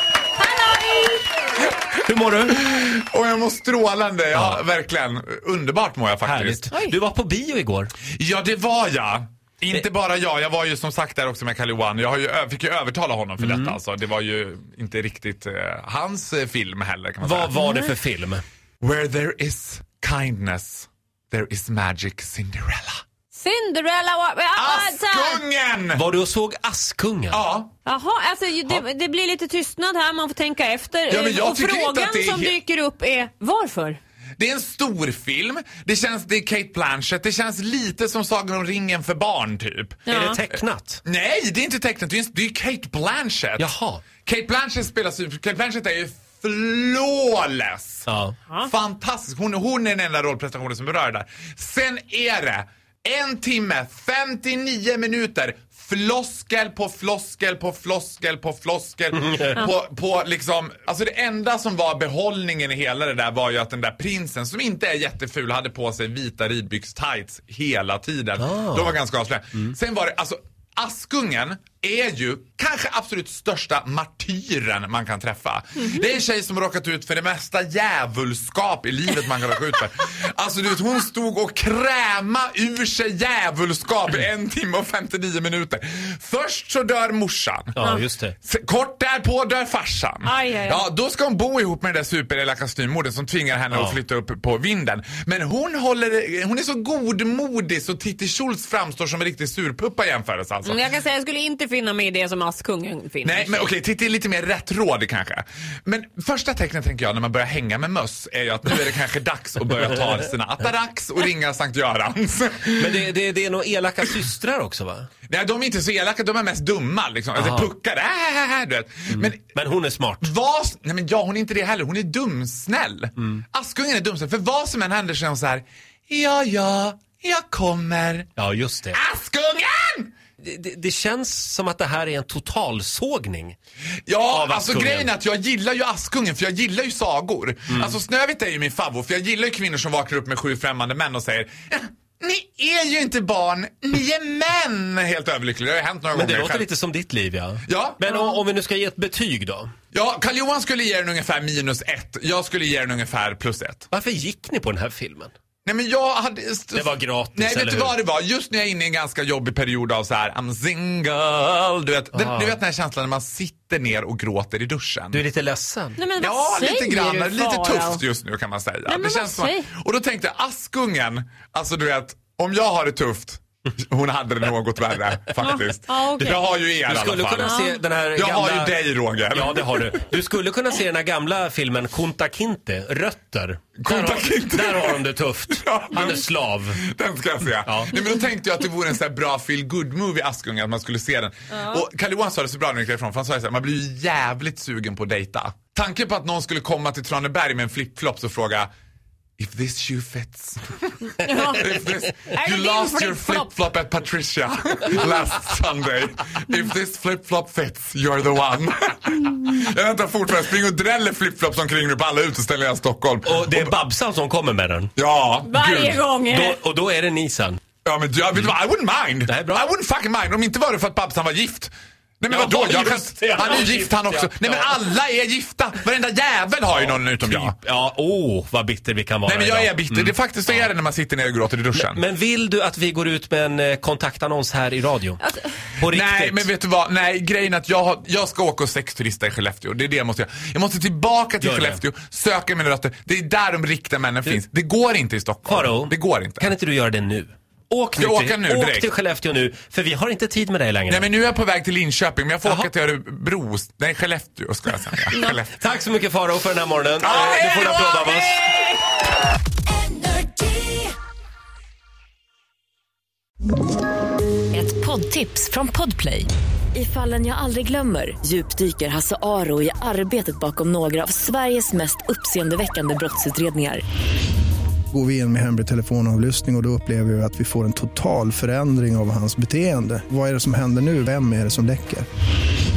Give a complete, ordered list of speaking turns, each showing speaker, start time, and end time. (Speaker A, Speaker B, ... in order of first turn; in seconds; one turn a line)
Speaker A: 0.3-1.2
Speaker B: 2.0-2.6
Speaker C: 2.6-6.7
Speaker B: 4.3-4.6
Speaker B: 6.2-7.9
Speaker A: 6.7-7.0
Speaker C: 8.2-17.6
Speaker B: 13.4-13.8
Speaker B: 17.2-18.4
Speaker C: 18.8-23.0
Speaker A: 23.3-25.4
Speaker C: 24.6-26.0
Speaker B: 25.9-27.4
Speaker C: 27.3-27.7
Speaker A: 27.9-34.0
Speaker C: 31.1-32.5
Speaker C: 34.4-40.0
Speaker A: 40.0-40.4
Speaker B: 40.1-41.0
Speaker C: 41.0-43.7
Speaker B: 43.6-44.0
Speaker C: 44.2-48.0
Speaker B: 48.0-48.3
Speaker C: 48.6-87.7
Speaker B: 59.2-59.5
Speaker B: 68.4-68.9
Speaker B: 87.8-88.3
Speaker C: 88.4-100.8
Speaker A: 90.2-90.8
Speaker B: 93.7-94.0
Speaker A: 100.6-103.7
Speaker C: 103.2-113.1
Speaker B: 112.8-115.1
Speaker C: 115.3-119.5
Speaker B: 117.3-117.7
Speaker B: 119.1-120.3
Speaker C: 120.2-128.3
Speaker B: 128.4-129.0
Speaker C: 128.9-130.1
Speaker B: 130.4-133.6
Speaker C: 134.1-146.7
Speaker B: 134.3-135.1
Speaker B: 146.1-149.7
Speaker C: 147.7-148.0
Speaker C: 149.9-153.8
Speaker B: 153.9-155.3
Speaker C: 155.6-165.2
Speaker B: 156.7-158.0
Speaker B: 162.2-162.6
Speaker B: 165.1-166.0
Speaker A: 166.0-168.0
Speaker C: 166.2-177.6
Speaker A: 168.8-169.7
Speaker A: 175.4-176.4
Speaker B: 176.2-178.7
Speaker A: 177.4-177.8
Speaker C: 178.1-179.9
Speaker B: 179.3-186.8
Speaker C: 183.8-186.2
Speaker C: 186.8-198.7
Speaker B: 187.6-187.9
Speaker A: 191.5-191.8
Speaker C: 199.4-213.7
Speaker A: 201.2-203.5
Speaker B: 213.2-214.9
Speaker C: 214.9-216.0
Speaker A: 215.4-216.6
Speaker B: 216.3-217.6
Speaker C: 217.8-227.6
Speaker B: 219.2-219.6
Speaker B: 222.3-224.8
Speaker B: 226.7-230.7
Speaker C: 229.2-232.0
Speaker B: 231.7-235.2
Speaker B: 235.8-236.5
Speaker C: 235.9-246.5
Speaker B: 241.4-241.8
Speaker B: 245.4-251.1
Speaker C: 247.9-248.9
Speaker C: 250.9-255.5
Speaker B: 252.4-252.7
Speaker B: 255.5-258.4
Speaker C: 257.0-258.6
Speaker D: 260.0-260.8
Speaker D: 264.5-273.8
Speaker E: 274.9-282.1